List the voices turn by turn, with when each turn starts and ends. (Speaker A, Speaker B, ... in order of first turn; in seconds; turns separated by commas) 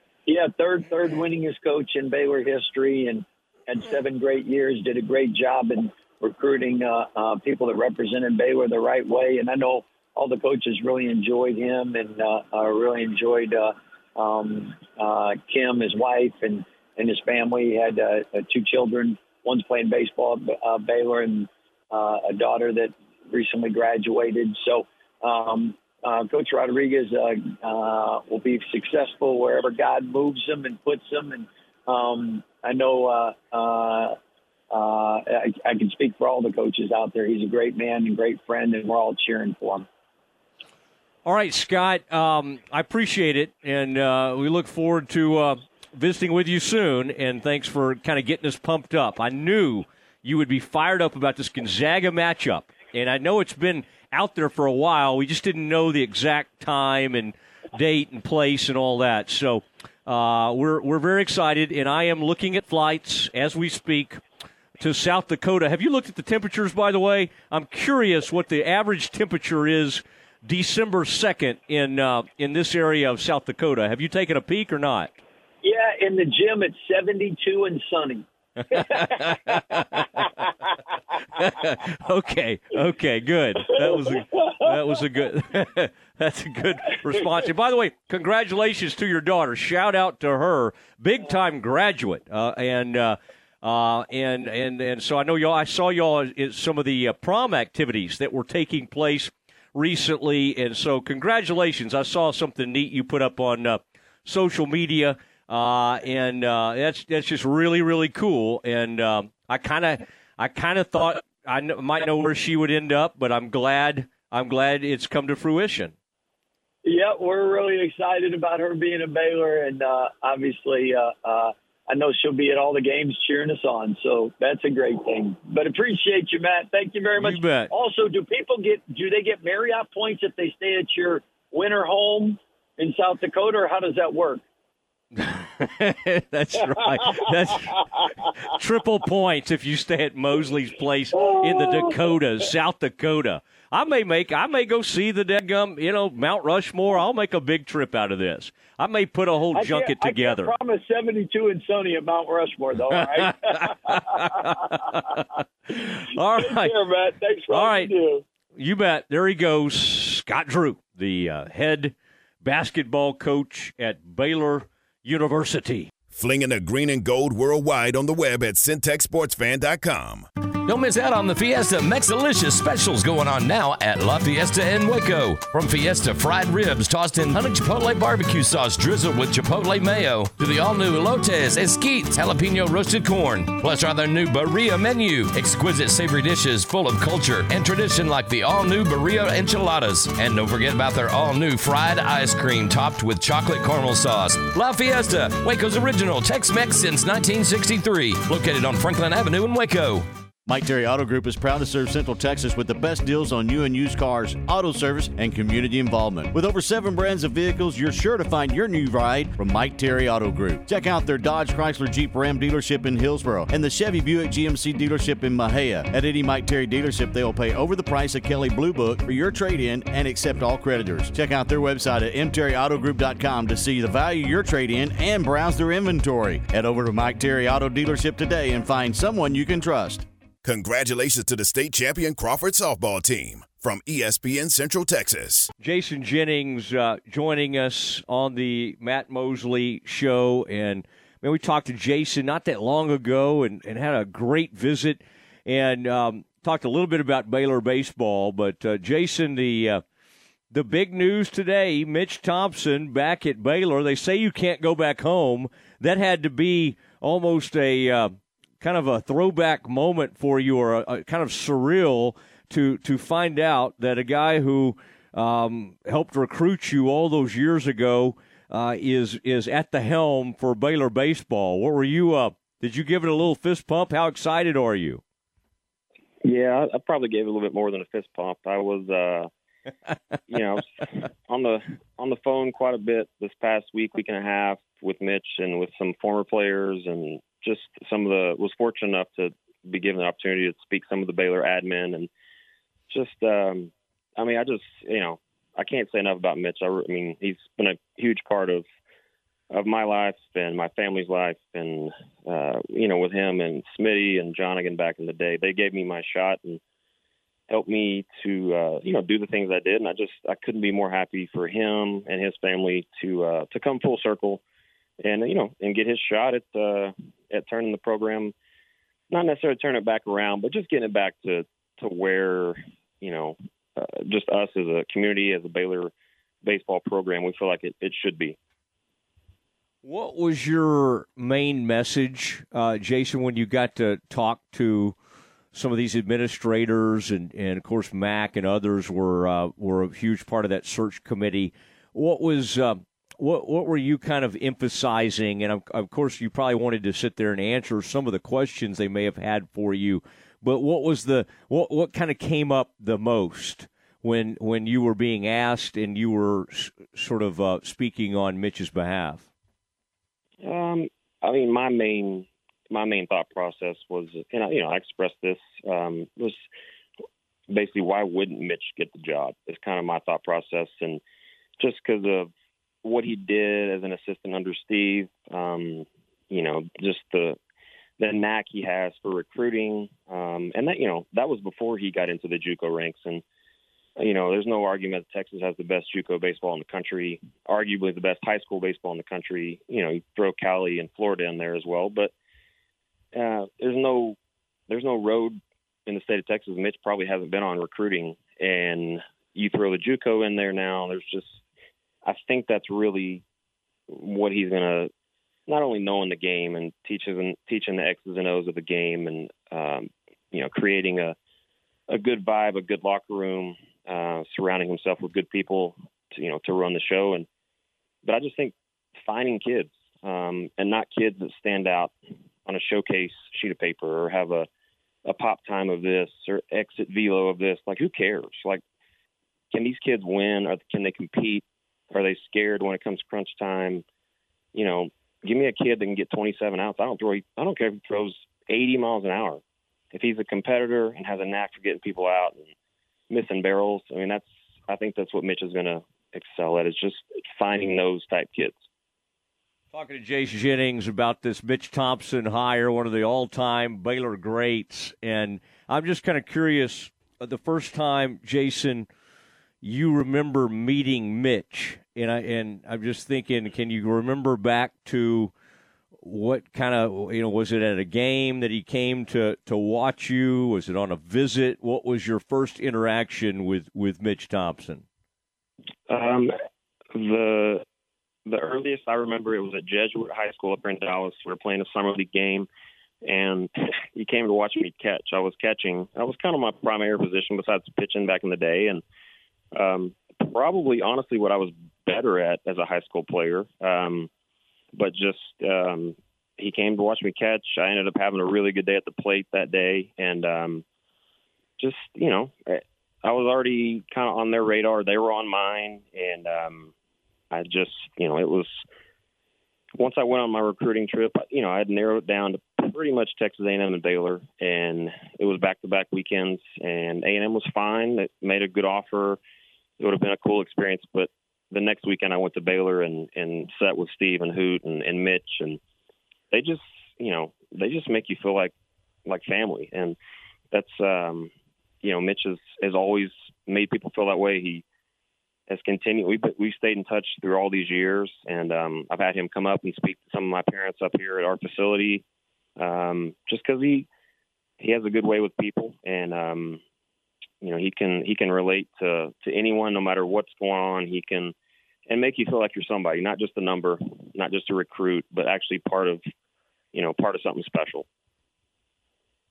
Speaker A: 0.3-34.2, Speaker A: 34.7-39.9, Speaker B: 41.2-64.2, Speaker B: 64.8-75.1, Speaker A: 75.6-79.8, Speaker B: 78.7-80.3, Speaker B: 81.4-115.9, Speaker A: 83.8-84.5, Speaker A: 116.8-134.4, Speaker B: 127.2-127.7, Speaker B: 135.2-137.9, Speaker B: 138.4-150.5, Speaker A: 141.1-142.2, Speaker A: 149.5-155.2, Speaker B: 153.3-156.8, Speaker A: 156.1-158.2, Speaker B: 157.5-157.9, Speaker B: 158.6-165.9, Speaker C: 166.1-170.3, Speaker D: 170.7-200.1, Speaker E: 200.5-230.1, Speaker C: 230.4-235.5, Speaker B: 235.6-249.8, Speaker B: 250.5-275.0, Speaker F: 276.2-279.3, Speaker F: 280.3-280.6, Speaker F: 281.3-292.1, Speaker F: 292.9-298.6, Speaker F: 299.5-306.6, Speaker F: 307.5-314.4, Speaker F: 315.0-318.3, Speaker F: 319.1-325.9, Speaker F: 326.4-328.4, Speaker B: 329.8-335.0, Speaker B: 335.5-359.3, Speaker F: 360.4-366.5, Speaker F: 367.5-371.0, Speaker F: 371.6-372.3, Speaker F: 372.8-377.4, Speaker F: 378.0-383.2, Speaker F: 384.0-392.1, Speaker F: 393.1-394.2, Speaker F: 394.7-401.4, Speaker F: 402.1-403.2, Speaker F: 403.9-404.9, Speaker F: 405.5-411.1, Speaker F: 411.9-417.3, Speaker F: 418.0-421.9, Speaker F: 422.5-424.5, Speaker F: 425.1-428.6, Speaker F: 429.5-433.8, Speaker F: 434.5-439.4, Speaker F: 439.9-442.5, Speaker F: 443.1-448.6, Speaker B: 449.7-458.9, Speaker B: 459.6-465.3, Speaker B: 466.0-474.8, Speaker F: 475.9-476.3, Speaker F: 476.9-477.6, Speaker F: 478.3-482.5, Speaker F: 483.1-488.8, Speaker F: 489.6-494.1, Speaker F: 494.8-500.6, Speaker F: 501.6-506.7, Speaker F: 507.3-508.6, Speaker F: 509.8-519.2, Speaker F: 519.8-525.6, Speaker F: 526.3-528.5, Speaker F: 529.1-530.0, Speaker F: 530.5-531.3, Speaker F: 531.8-534.6, Speaker F: 535.5-542.0, Speaker F: 542.6-543.9, Speaker F: 544.6-546.6, Speaker F: 547.4-551.3, Speaker F: 551.9-556.0, Speaker F: 556.7-557.9